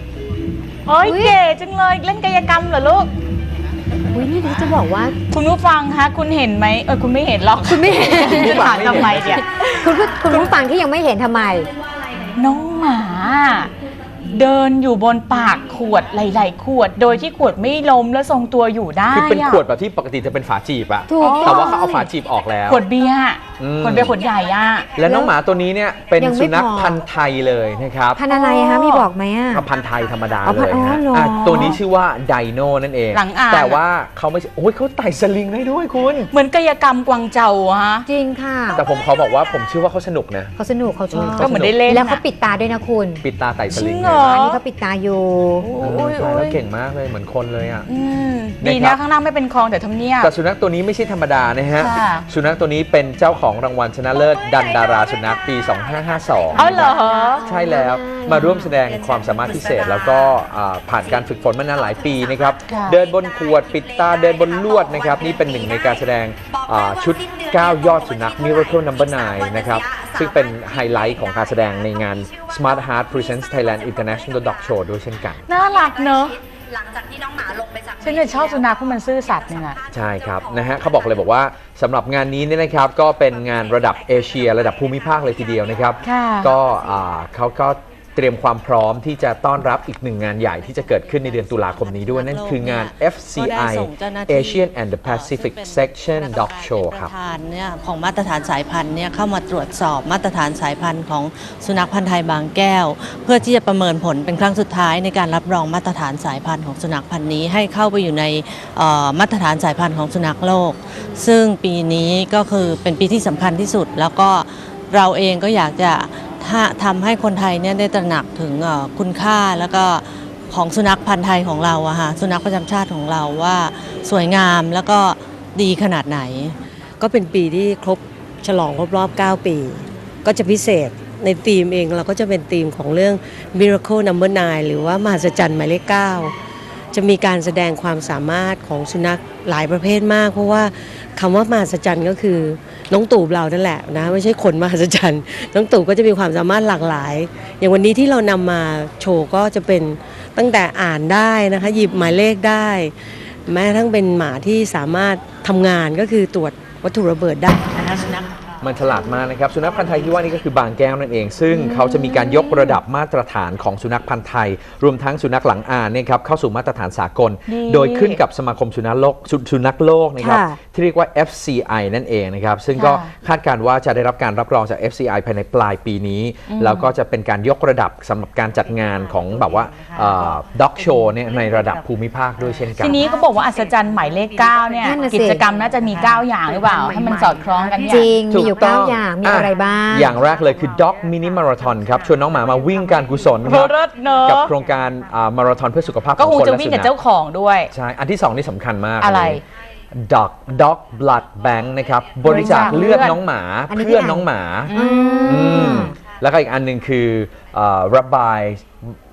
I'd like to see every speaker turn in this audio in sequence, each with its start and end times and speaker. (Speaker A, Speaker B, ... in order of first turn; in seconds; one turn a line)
Speaker A: 0.8-3.1
Speaker B: 1.0-1.4
Speaker B: 4.1-5.1
Speaker A: 5.3-10.5
Speaker B: 7.6-8.8
Speaker C: 8.1-9.4
Speaker B: 9.6-11.7
Speaker A: 12.3-13.7
Speaker A: 14.3-19.6
Speaker C: 19.1-22.8
Speaker B: 21.1-22.1
Speaker A: 21.2-21.7
Speaker A: 22.7-24.9
Speaker C: 23.6-24.2
Speaker C: 24.9-28.2
Speaker B: 25.0-25.3
Speaker B: 26.1-27.0
Speaker B: 28.1-29.6
Speaker A: 28.2-29.1
Speaker C: 29.5-36.3
Speaker B: 30.4-31.8
Speaker A: 33.1-33.8
Speaker A: 36.3-38.1
Speaker B: 38.0-38.8
Speaker C: 38.7-40.5
Speaker B: 40.6-43.2
Speaker C: 41.1-41.8
Speaker A: 41.4-42.2
Speaker C: 43.2-44.4
Speaker A: 43.7-44.6
Speaker B: 44.3-45.6
Speaker A: 45.6-46.5
Speaker C: 45.8-47.9
Speaker A: 47.9-50.3
Speaker C: 48.6-49.0
Speaker C: 50.2-75.5
Speaker A: 51.8-52.3
Speaker A: 56.5-57.5
Speaker B: 56.6-58.8
Speaker A: 62.7-63.0
Speaker D: 63.6-65.7
Speaker D: 67.3-68.8
Speaker D: 69.7-70.1
Speaker A: 75.5-76.4
Speaker D: 76.8-78.0
Speaker A: 78.0-79.8
Speaker C: 79.9-97.1
Speaker A: 86.0-86.5
Speaker E: 90.6-126.5
Speaker F: 127.0-136.3
Speaker F: 136.9-152.9
Speaker F: 153.4-157.9
Speaker E: 157.9-158.2
Speaker C: 158.6-183.1
Speaker B: 161.5-162.5
Speaker A: 167.5-168.2
Speaker B: 170.2-170.6
Speaker A: 172.8-173.1
Speaker A: 176.5-176.9
Speaker A: 182.8-188.2
Speaker B: 184.8-185.4
Speaker B: 187.8-190.2
Speaker C: 188.3-196.9
Speaker A: 193.4-194.5
Speaker A: 196.2-197.7
Speaker C: 197.7-199.4
Speaker A: 199.0-199.4
Speaker C: 199.9-208.7
Speaker B: 202.2-203.0
Speaker A: 202.2-203.2
Speaker B: 203.7-206.0
Speaker A: 204.7-205.8